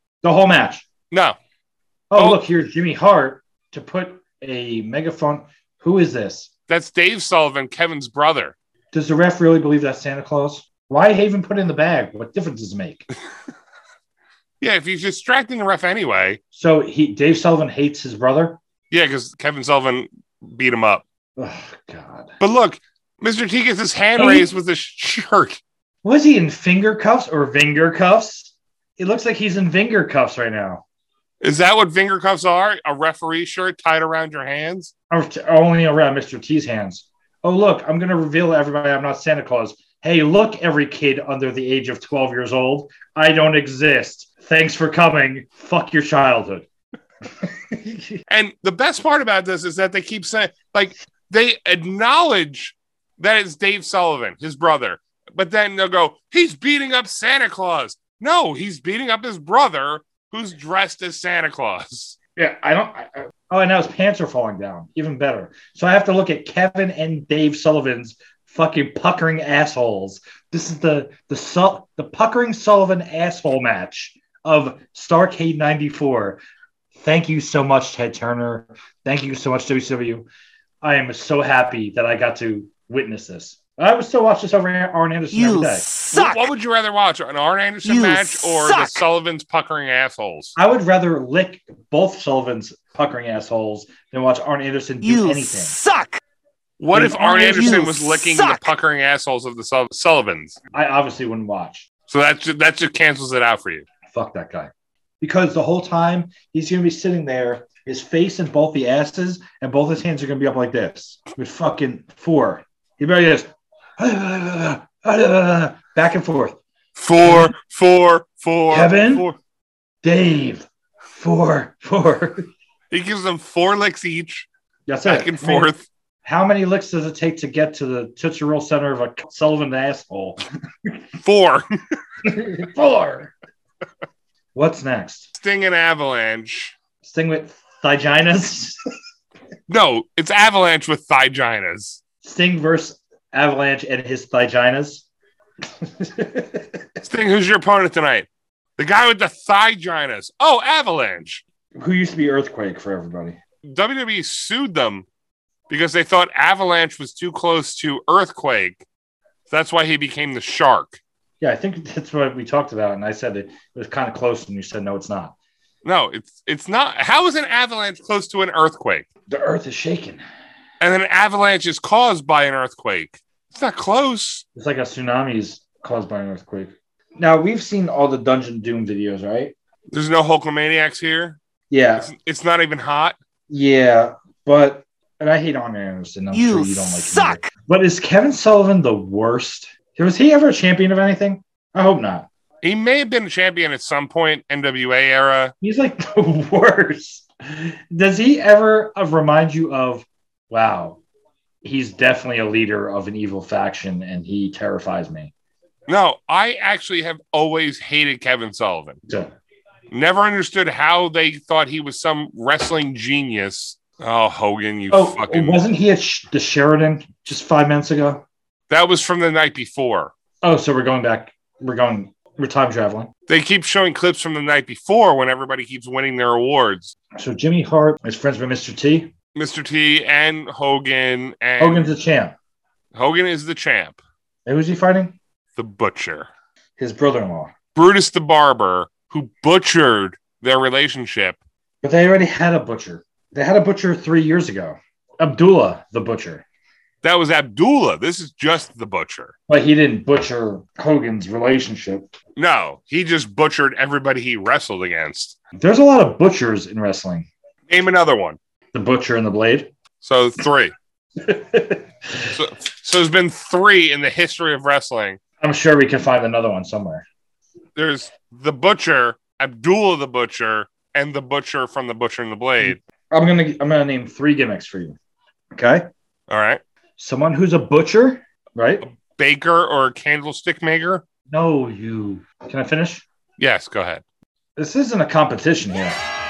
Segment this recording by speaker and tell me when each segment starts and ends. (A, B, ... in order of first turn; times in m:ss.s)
0:00.2-0:00.8 A
0:01.1-0:01.4 B
0:02.1-0:06.5 A
0:02.2-0:02.4 B
0:06.7-0:08.6 B
0:08.9-0:13.1 A
0:14.6-0:16.4 B
0:16.5-0:18.6 A
0:18.9-0:21.0 B
0:21.4-0:22.3 A
0:22.4-0:25.6 B
0:24.2-0:24.5 A
0:26.0-0:30.8 A
0:31.4-0:34.9 B
0:35.1-0:46.7 A
0:47.4-0:48.2 A
0:48.3-1:02.2 B
1:02.4-1:16.4 A
1:16.9-1:20.3 A
1:20.8-1:25.9 A
1:25.3-1:26.4 C
1:26.1-1:30.6 B
1:27.8-1:29.0 C
1:30.6-1:35.8 A
1:35.0-1:36.2 C
1:36.8-1:40.6 B
1:36.9-1:37.9 A
1:37.5-1:38.6 C
1:40.7-1:41.9 A
1:42.1-1:43.9 B
1:44.1-1:56.6 A
1:57.0-1:59.4 B
1:57.2-1:57.5 A
1:58.7-1:59.3 A
2:00.0-2:02.5 A
2:02.9-2:04.5 B
2:04.9-2:05.7 A
2:05.0-2:05.9 B
2:06.2-2:11.0 A
2:11.2-2:11.7 B
2:12.2-2:13.3 A
2:14.6-2:15.3 A
2:15.4-2:16.8 B
2:17.0-2:18.8 A
2:19.7-2:22.0 B
2:22.2-2:25.1 A
2:25.8-2:27.0 A
2:27.0-2:31.4 B
2:31.8-2:33.4 A
2:33.6-2:35.1 B
2:35.7-2:38.8 B
2:39.5-2:41.0 B
2:41.4-2:45.3 A
2:45.8-2:49.1 B
2:49.3-2:50.2 A
2:50.8-2:54.4 B
2:54.6-2:59.5 A
2:59.9-3:01.4 B
3:01.7-3:02.1 A
3:02.0-3:03.2 B
3:03.5-3:12.3 A
3:06.3-3:07.5 C
3:12.6-3:15.5 B
3:15.6-3:21.0 A
3:21.6-3:25.3 A
3:25.9-3:29.0 B
3:29.1-3:29.3 A
3:29.9-3:35.6 B
3:34.9-3:38.2 A
3:38.7-3:40.1 B
3:40.4-3:43.1 A
3:43.3-3:47.0 B
3:47.2-3:49.1 A
3:49.4-3:51.9 B
3:51.6-3:52.4 A
3:52.9-3:54.0 B
3:54.5-3:55.2 A
3:55.6-3:56.3 B
3:56.8-3:57.5 A
3:57.8-4:01.4 B
4:01.8-4:06.4 A
4:07.0-4:09.3 B
4:09.5-4:12.1 A
4:12.4-4:15.4 B
4:15.5-4:17.3 A
4:17.7-4:18.4 B
4:18.7-4:19.7 A
4:20.0-4:20.7 B
4:21.2-4:22.3 A
4:22.3-4:25.2 B
4:25.4-4:27.0 A
4:27.8-4:32.8 B
4:32.6-4:35.0 A
4:35.5-4:35.9 A
4:36.3-4:36.6 B
4:37.0-4:38.8 A
4:38.8-4:41.0 B
4:41.3-4:43.0 A
4:43.4-4:44.0 B
4:44.6-4:46.0 A